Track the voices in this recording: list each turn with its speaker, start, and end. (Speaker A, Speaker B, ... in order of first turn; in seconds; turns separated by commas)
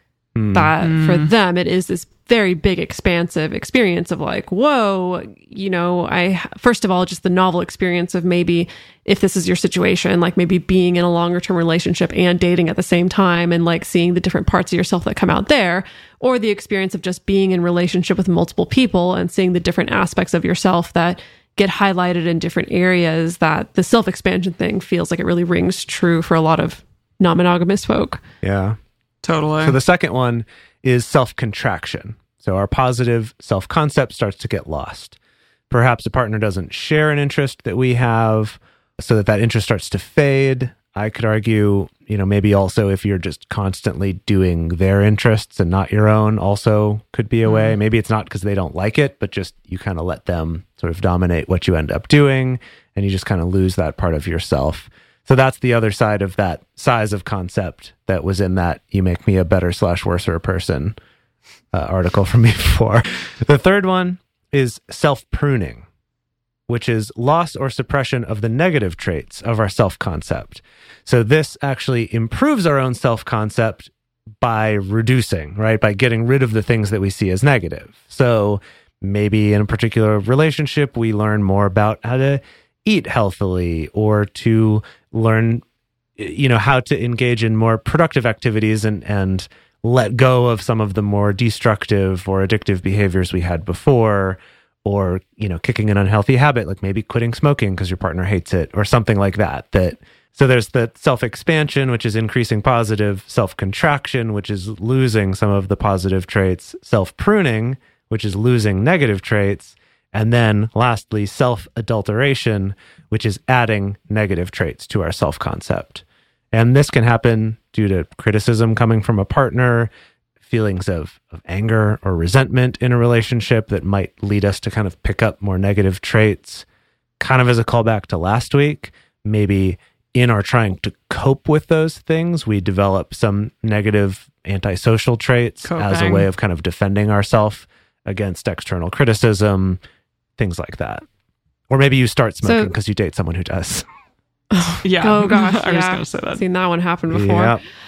Speaker A: 0.3-0.7, Speaker B: 0.5-28.2, Speaker C: 0.8-1.3, Speaker A: 28.4-28.8, Speaker C: 29.2-29.8, Speaker A: 29.6-35.2, Speaker A: 35.7-61.0, Speaker C: 47.5-47.8, Speaker A: 61.7-65.8, Speaker A: 66.7-85.6, Speaker A: 86.2-119.9, Speaker A: 120.4-126.7, Speaker A: 127.2-139.8, Speaker C: 135.7-136.3, Speaker A: 140.4-141.0, Speaker A: 141.7-143.9, Speaker B: 142.4-142.7, Speaker B: 144.5-147.6, Speaker C: 144.8-146.4, Speaker A: 147.1-147.6